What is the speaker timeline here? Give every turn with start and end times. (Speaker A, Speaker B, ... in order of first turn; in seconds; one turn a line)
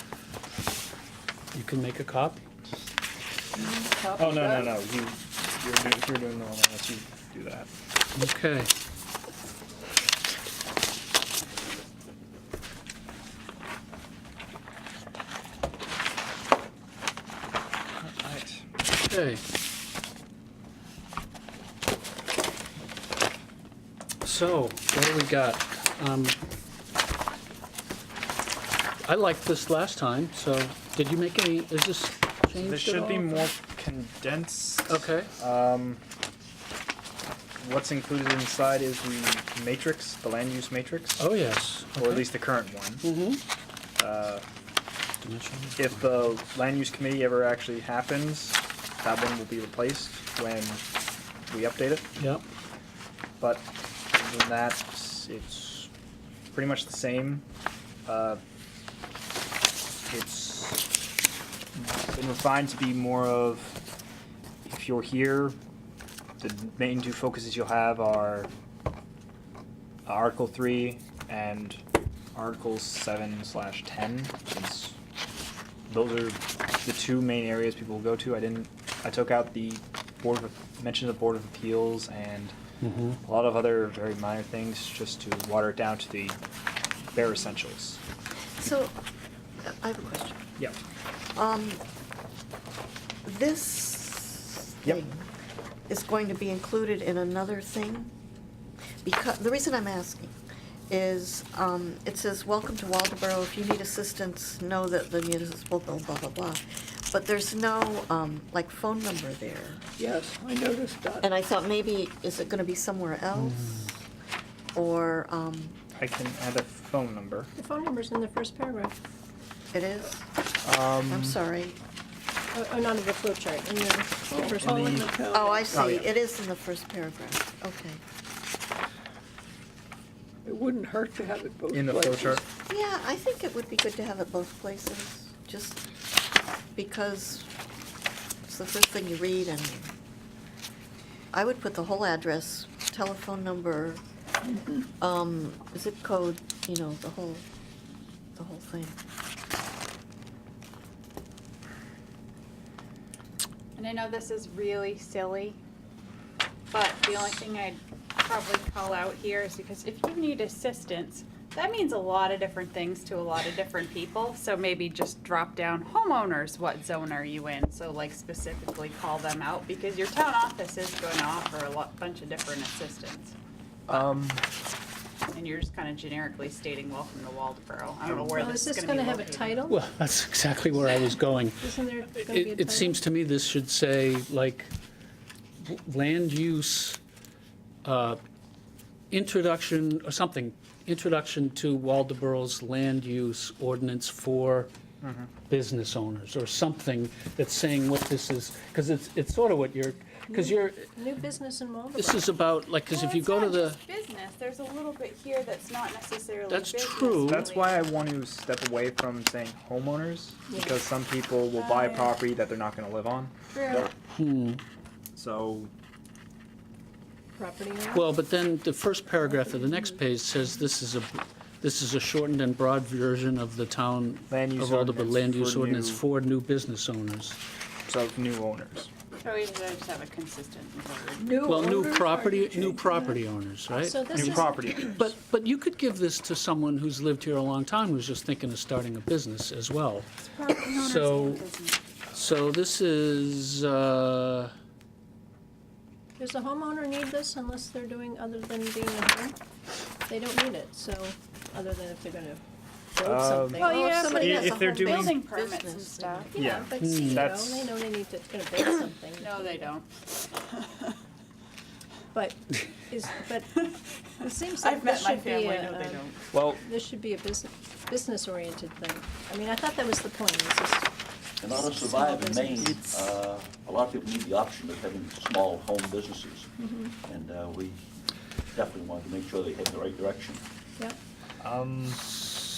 Speaker A: 1.5-2.4
Speaker B: 3.6-4.7
Speaker C: 4.1-7.7
Speaker A: 8.2-8.7
Speaker C: 18.0-18.7
Speaker A: 19.1-19.4
Speaker A: 24.2-26.4
Speaker A: 29.1-33.5
Speaker C: 32.6-36.0
Speaker A: 34.9-35.3
Speaker C: 37.6-41.2
Speaker A: 41.2-42.3
Speaker C: 42.0-43.0
Speaker A: 43.0-43.4
Speaker C: 44.0-44.5
Speaker A: 45.2-46.4
Speaker C: 45.8-50.8
Speaker C: 51.5-52.1
Speaker A: 52.2-52.5
Speaker C: 53.4-55.9
Speaker C: 56.5-57.5
Speaker C: 58.1-58.4
Speaker C: 60.1-60.9
Speaker C: 61.8-63.8
Speaker C: 64.7-65.6
Speaker C: 66.4-68.5
Speaker C: 70.1-71.8
Speaker C: 72.3-75.0
Speaker C: 75.9-82.6
Speaker A: 82.8-83.2
Speaker C: 83.2-86.4
Speaker C: 87.1-88.0
Speaker D: 88.6-89.0
Speaker D: 89.6-90.5
Speaker D: 91.3-91.8
Speaker D: 93.2-95.3
Speaker D: 95.9-98.1
Speaker D: 99.0-100.3
Speaker D: 100.9-109.8
Speaker B: 110.0-111.2
Speaker D: 111.2-114.0
Speaker A: 113.5-113.9
Speaker D: 114.8-115.8
Speaker C: 116.0-117.5
Speaker E: 117.5-119.0
Speaker D: 119.7-120.3
Speaker C: 120.6-121.4
Speaker D: 121.1-121.8
Speaker E: 122.5-125.3
Speaker B: 124.4-125.7
Speaker C: 124.5-125.1
Speaker D: 125.3-128.0
Speaker C: 125.7-126.1
Speaker B: 130.5-132.4
Speaker C: 131.7-132.4
Speaker D: 132.7-135.8
Speaker D: 136.8-137.5
Speaker D: 138.5-139.9
Speaker D: 141.3-144.0
Speaker D: 145.0-147.4
Speaker D: 148.4-149.0
Speaker F: 153.8-155.6
Speaker F: 156.7-173.3
Speaker C: 173.9-174.4
Speaker F: 175.3-179.7
Speaker C: 178.0-178.6
Speaker E: 178.4-179.8
Speaker A: 179.7-184.7
Speaker E: 181.6-183.0
Speaker A: 185.6-187.0
Speaker A: 187.8-188.2
Speaker A: 189.1-194.7
Speaker C: 195.0-195.3
Speaker A: 195.4-200.9
Speaker E: 200.3-202.4
Speaker A: 202.0-203.8
Speaker F: 202.9-207.8
Speaker A: 206.5-207.5
Speaker C: 207.2-213.3
Speaker E: 210.5-210.8
Speaker F: 211.5-212.2
Speaker F: 213.5-213.9
Speaker A: 214.1-214.6
Speaker C: 215.2-215.7
Speaker E: 217.4-218.1
Speaker A: 217.9-227.4
Speaker E: 219.3-219.9
Speaker C: 224.3-226.0
Speaker C: 227.9-228.9
Speaker F: 229.2-231.8
Speaker B: 231.2-233.2
Speaker A: 231.4-234.4
Speaker E: 233.8-234.8
Speaker C: 234.1-235.1
Speaker A: 234.9-240.2
Speaker F: 240.3-241.8
Speaker A: 240.7-241.5
Speaker A: 242.1-244.5
Speaker E: 246.2-249.4
Speaker E: 250.1-252.4
Speaker E: 252.9-254.8
Speaker C: 253.0-255.2
Speaker F: 253.6-256.3
Speaker D: 253.6-256.0
Speaker E: 256.0-259.7
Speaker C: 256.4-257.7
Speaker A: 256.8-257.4
Speaker F: 259.2-260.9
Speaker E: 262.1-263.6
Speaker E: 264.2-270.9
Speaker F: 264.5-266.2
Speaker C: 266.3-266.6
Speaker G: 271.4-276.5
Speaker E: 271.6-272.8
Speaker E: 276.6-276.9
Speaker G: 277.1-277.9
Speaker G: 278.5-280.4
Speaker C: 281.4-282.0